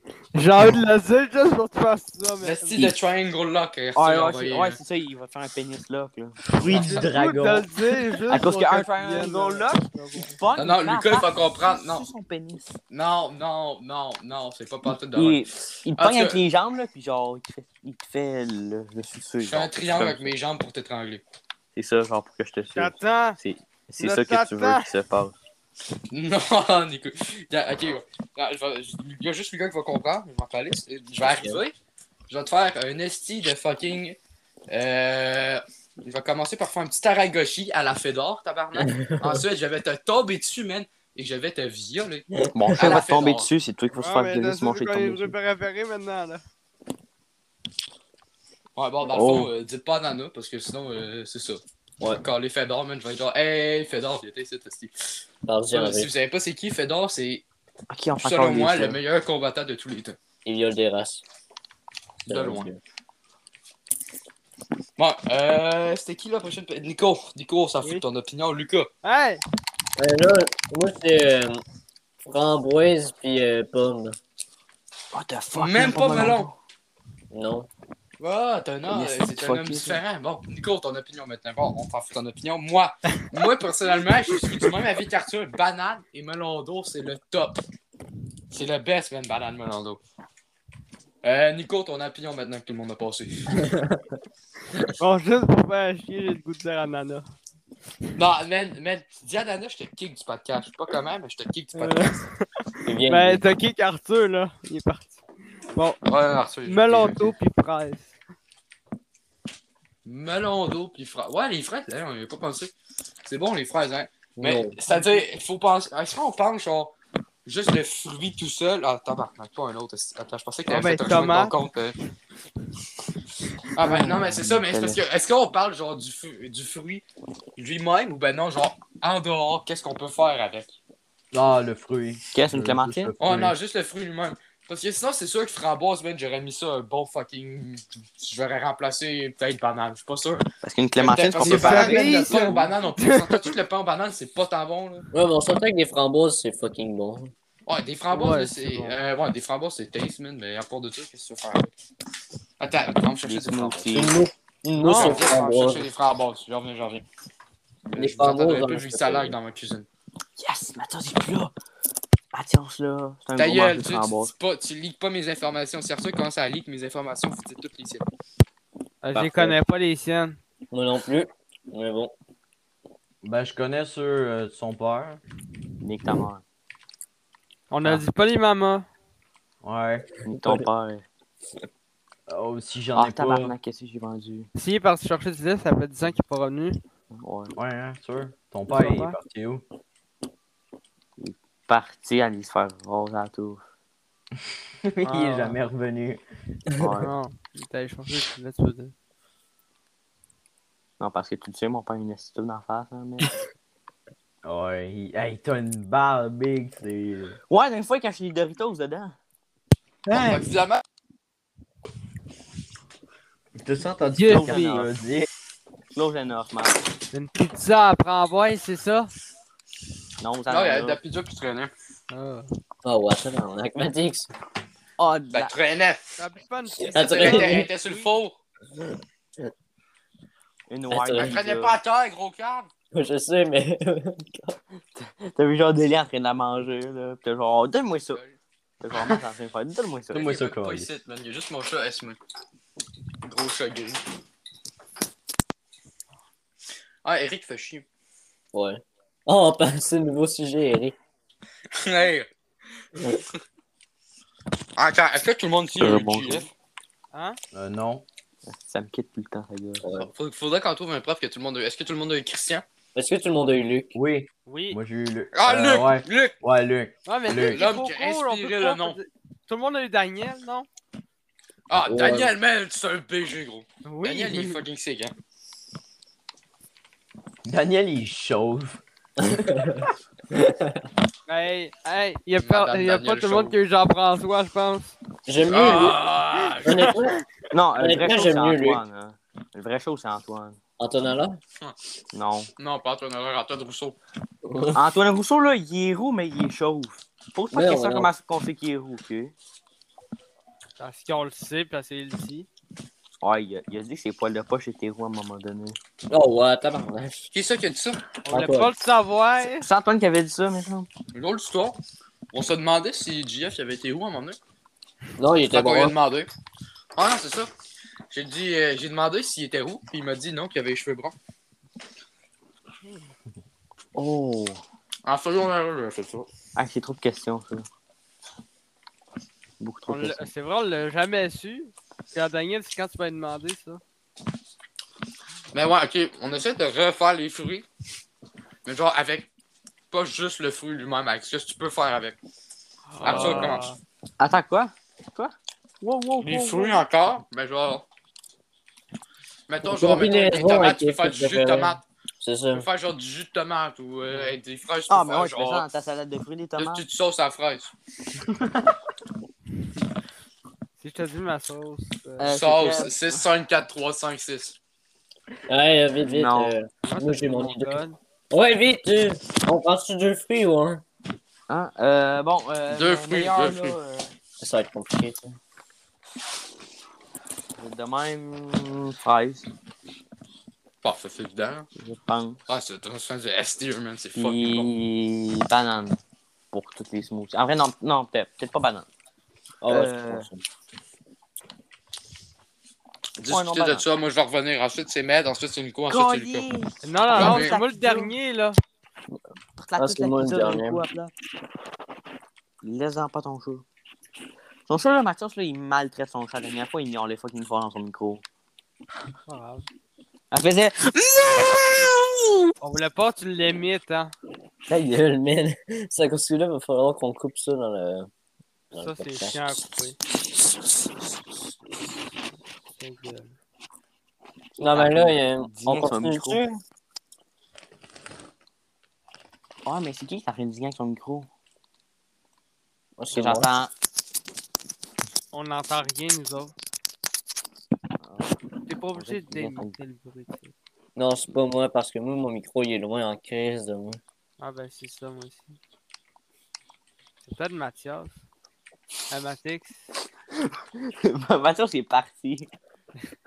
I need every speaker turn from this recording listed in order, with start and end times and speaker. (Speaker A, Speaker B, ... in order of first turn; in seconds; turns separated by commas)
Speaker A: 0.3-2.9, Speaker B: 2.4-4.8, Speaker C: 3.9-7.5, Speaker A: 6.6-10.4, Speaker D: 6.7-7.6, Speaker B: 6.7-7.0, Speaker C: 8.3-12.8, Speaker B: 10.6-12.1, Speaker B: 12.9-15.4, Speaker C: 15.1-20.3, Speaker B: 15.9-16.4, Speaker B: 19.4-21.2, Speaker C: 21.7-25.3, Speaker A: 22.7-23.4, Speaker A: 24.0-24.9, Speaker B: 26.1-31.7, Speaker E: 31.2-31.6, Speaker B: 32.3-34.2, Speaker B: 34.7-43.5, Speaker E: 38.8-39.4, Speaker E: 42.3-42.9, Speaker C: 42.5-45.3, Speaker A: 43.9-46.4, Speaker B: 48.8-51.6, Speaker C: 49.1-49.5, Speaker B: 52.1-55.2, Speaker E: 55.5-56.1, Speaker B: 55.7-57.4, Speaker C: 57.9-59.0, Speaker B: 58.2-60.2, Speaker E: 60.4-61.2, Speaker B: 62.2-62.7, Speaker E: 62.2-62.8, Speaker B: 65.0-68.9, Speaker A: 69.0-69.4, Speaker E: 70.0-71.6, Speaker E: 72.2-74.2, Speaker C: 75.1-76.5, Speaker B: 75.5-76.5, Speaker E: 77.3-77.7, Speaker B: 78.2-87.6, Speaker C: 78.9-80.0, Speaker B: 88.5-90.0, Speaker B: 91.2-93.6, Speaker E: 93.6-94.0, Speaker A: 95.0-97.3, Speaker B: 98.2-102.3, Speaker A: 101.7-105.2, Speaker E: 102.8-103.5, Speaker A: 105.7-106.0, Speaker B: 106.0-107.3, Speaker A: 106.6-108.1, Speaker B: 110.0-112.7, Speaker B: 113.2-116.9, Speaker E: 114.4-114.8, Speaker B: 117.5-122.0, Speaker A: 120.7-121.5, Speaker B: 123.7-127.0, Speaker C: 123.8-125.0, Speaker B: 127.6-130.8, Speaker D: 131.3-133.5, Speaker C: 132.3-133.1, Speaker B: 133.2-140.4, Speaker C: 140.6-142.6, Speaker B: 141.0-145.1, Speaker A: 141.4-143.6, Speaker E: 145.1-147.3, Speaker B: 147.7-151.7, Speaker A: 148.1-149.0, Speaker B: 152.6-154.1, Speaker C: 153.2-154.2, Speaker E: 153.9-155.9, Speaker A: 154.8-155.2, Speaker B: 154.8-157.0, Speaker B: 157.9-159.9, Speaker E: 157.9-159.3, Speaker C: 160.4-161.5, Speaker C: 162.3-164.3, Speaker B: 163.3-168.0, Speaker A: 169.0-170.4, Speaker C: 169.1-169.5, Speaker E: 170.7-172.1, Speaker D: 173.2-175.2, Speaker C: 175.8-176.4, Speaker A: 177.7-178.9, Speaker D: 179.6-180.1, Speaker C: 180.2-181.0, Speaker E: 180.3-180.7, Speaker D: 182.3-183.5, Speaker C: 182.9-184.5, Speaker A: 184.5-186.8, Speaker C: 187.1-187.5, Speaker D: 187.6-189.6, Speaker A: 188.7-189.2, Speaker C: 191.2-193.6, Speaker D: 194.8-196.2, Speaker A: 195.0-195.6, Speaker C: 196.8-197.1, Speaker A: 197.0-198.9, Speaker C: 201.0-203.3, Speaker D: 204.4-207.4, Speaker C: 207.5-209.1, Speaker A: 210.1-210.5, Speaker B: 210.1-210.8, Speaker D: 213.6-215.3, Speaker A: 214.2-214.8, Speaker C: 214.2-214.9, Speaker C: 215.9-216.8, Speaker A: 217.1-219.1, Speaker C: 220.2-221.0, Speaker B: 220.5-221.7, Speaker A: 222.1-222.5, Speaker E: 222.8-224.3, Speaker C: 225.0-225.5, Speaker B: 225.3-226.2, Speaker A: 226.2-228.1, Speaker E: 226.8-227.7, Speaker B: 226.9-228.4, Speaker E: 228.7-229.5, Speaker C: 230.7-231.8, Speaker E: 230.9-231.4, Speaker B: 231.2-232.7, Speaker E: 232.9-234.6, Speaker C: 235.0-238.2, Speaker C: 238.8-240.3, Speaker D: 240.1-240.9, Speaker B: 240.1-242.2, Speaker B: 243.2-244.0, Speaker B: 247.0-247.8, Speaker E: 248.5-250.9, Speaker B: 251.7-252.3, Speaker B: 254.8-256.5, Speaker C: 255.8-256.5, Speaker A: 257.1-257.4, Speaker D: 257.5-258.0, Speaker C: 258.5-259.8, Speaker E: 259.8-260.1, Speaker B: 260.0-262.6, Speaker E: 262.9-263.9, Speaker D: 263.9-267.6, Speaker A: 264.4-264.8, Speaker B: 265.3-266.4, Speaker A: 267.1-270.7, Speaker B: 267.5-269.0, Speaker B: 271.7-275.1, Speaker E: 271.7-272.3, Speaker A: 273.8-274.6, Speaker D: 277.4-279.6, Speaker E: 279.2-280.9, Speaker A: 281.3-284.9, Speaker B: 282.4-283.6, Speaker E: 285.3-286.0, Speaker B: 285.5-286.9, Speaker E: 286.6-287.2, Speaker A: 286.7-287.0, Speaker C: 287.5-290.6, Speaker E: 287.8-288.8, Speaker E: 290.8-291.4, Speaker C: 292.1-292.5, Speaker B: 292.6-293.9, Speaker E: 294.4-294.8, Speaker C: 294.7-299.3, Speaker E: 297.5-298.1, Speaker A: 300.8-302.5, Speaker C: 303.2-305.8, Speaker E: 306.1-307.3, Speaker B: 307.3-308.0, Speaker E: 308.2-308.7, Speaker A: 308.3-309.7, Speaker C: 309.6-310.9, Speaker B: 311.1-311.8, Speaker B: 312.3-314.4, Speaker E: 315.2-315.9, Speaker B: 315.5-316.3, Speaker B: 316.9-317.5, Speaker B: 318.1-321.1, Speaker C: 323.9-324.6, Speaker B: 325.0-326.3, Speaker C: 326.6-327.6, Speaker C: 329.6-330.2, Speaker A: 329.9-333.8, Speaker B: 335.5-337.6, Speaker B: 338.6-339.3, Speaker B: 339.9-342.2, Speaker A: 342.9-343.8, Speaker B: 343.0-343.7, Speaker C: 343.1-343.5, Speaker C: 344.2-346.8, Speaker B: 346.2-347.8, Speaker B: 349.5-351.8, Speaker E: 349.6-352.6, Speaker B: 352.5-355.6, Speaker C: 354.9-356.8, Speaker B: 356.6-357.7, Speaker D: 358.4-358.7, Speaker A: 360.8-362.4, Speaker C: 362.2-363.2, Speaker B: 362.3-364.6, Speaker E: 365.5-370.8, Speaker C: 366.0-366.6, Speaker A: 366.8-368.0, Speaker C: 371.5-374.1, Speaker B: 372.7-373.8, Speaker E: 374.4-375.4, Speaker C: 377.6-379.5, Speaker B: 380.8-381.7, Speaker C: 381.8-382.4, Speaker B: 382.5-384.7, Speaker C: 384.1-386.0, Speaker C: 386.5-388.9, Speaker E: 389.6-390.4, Speaker C: 389.6-390.3, Speaker B: 393.2-396.4, Speaker C: 393.2-393.8, Speaker C: 395.9-398.1, Speaker A: 396.8-398.6, Speaker B: 397.1-397.6, Speaker C: 399.6-401.1, Speaker E: 399.8-400.8, Speaker C: 402.6-403.6, Speaker C: 404.7-408.2, Speaker A: 409.3-409.7, Speaker C: 410.3-412.1, Speaker A: 412.6-414.1, Speaker E: 414.7-418.1, Speaker E: 418.7-419.6, Speaker A: 418.7-420.0, Speaker A: 422.8-423.3, Speaker E: 424.6-426.6, Speaker C: 424.6-426.4, Speaker C: 429.6-431.3, Speaker E: 433.0-433.5, Speaker C: 433.1-433.7, Speaker A: 435.3-436.5, Speaker C: 438.0-438.3, Speaker A: 438.7-440.5, Speaker C: 438.9-439.7, Speaker E: 440.9-444.0, Speaker A: 444.4-445.6, Speaker A: 447.2-448.2, Speaker A: 449.1-449.8, Speaker C: 450.8-452.5